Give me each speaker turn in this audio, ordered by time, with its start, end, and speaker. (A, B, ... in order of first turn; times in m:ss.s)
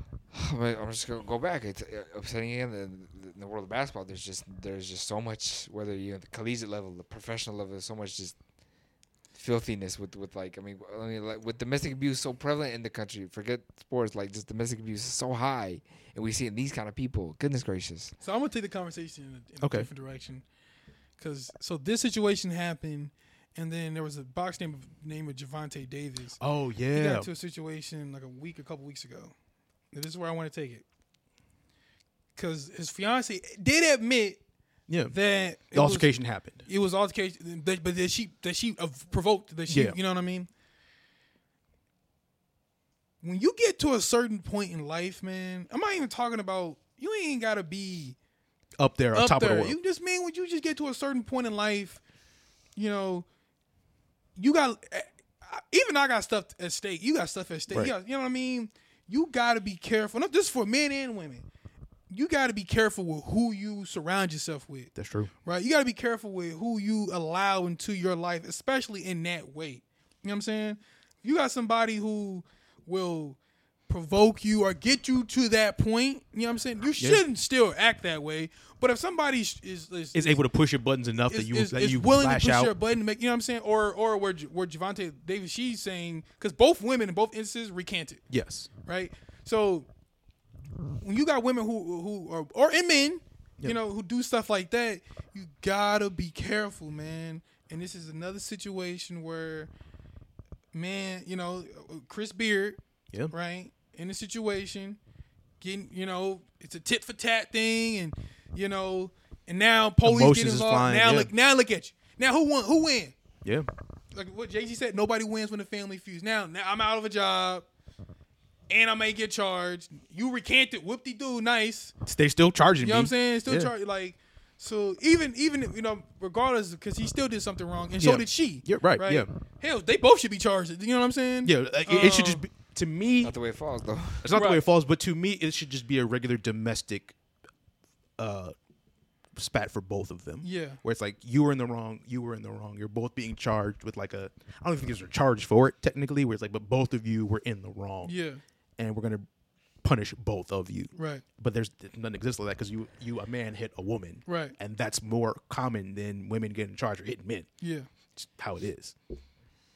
0:00.3-0:08.4 A
0:09.3-0:18.1 A
0:18.2-0:20.4 B
0:19.6-0:19.9 C
0:21.2-0:26.4 B
0:26.4-0:27.3 C
0:26.9-0:29.3 B
0:29.9-0:30.8 B
0:32.4-0:34.4 B
0:34.9-0:35.2 C
0:35.1-0:36.1 B
0:35.7-0:36.6 C
0:36.6-0:40.5 B
0:39.7-0:40.0 C
0:43.2-0:48.2 B
0:48.8-0:49.8 C
0:49.1-0:52.0 B
0:52.8-0:53.2 B
0:54.4-1:01.4 B
1:02.1-1:04.9 B
1:05.0-1:05.3 C
1:05.4-1:13.4 B
1:13.9-1:20.4 B
1:20.1-1:22.7 C
1:21.3-1:28.2 B
1:28.3-1:28.7 C
1:28.8-1:29.9 B
1:31.0-1:39.7 B
1:40.7-1:42.8 B
1:43.3-1:45.0 B
1:45.6-1:53.1 B
1:50.0-1:51.3 C
1:54.1-1:57.6 B
1:58.7-2:01.9 B
2:02.0-2:03.7 C
2:02.8-2:12.4 B
2:08.0-2:09.3 C
2:11.4-2:13.3 C
2:13.2-2:14.3 A
2:14.2-2:17.1 C
2:14.3-2:14.6 B
2:18.2-2:18.5 C
2:19.4-2:28.1 C
2:20.4-2:20.8 B
2:28.0-2:28.4 B
2:28.8-2:29.2 C
2:29.8-2:37.5 C
2:30.9-2:31.2 B
2:34.3-2:34.6 B
2:37.6-2:37.9 B
2:38.2-2:38.9 C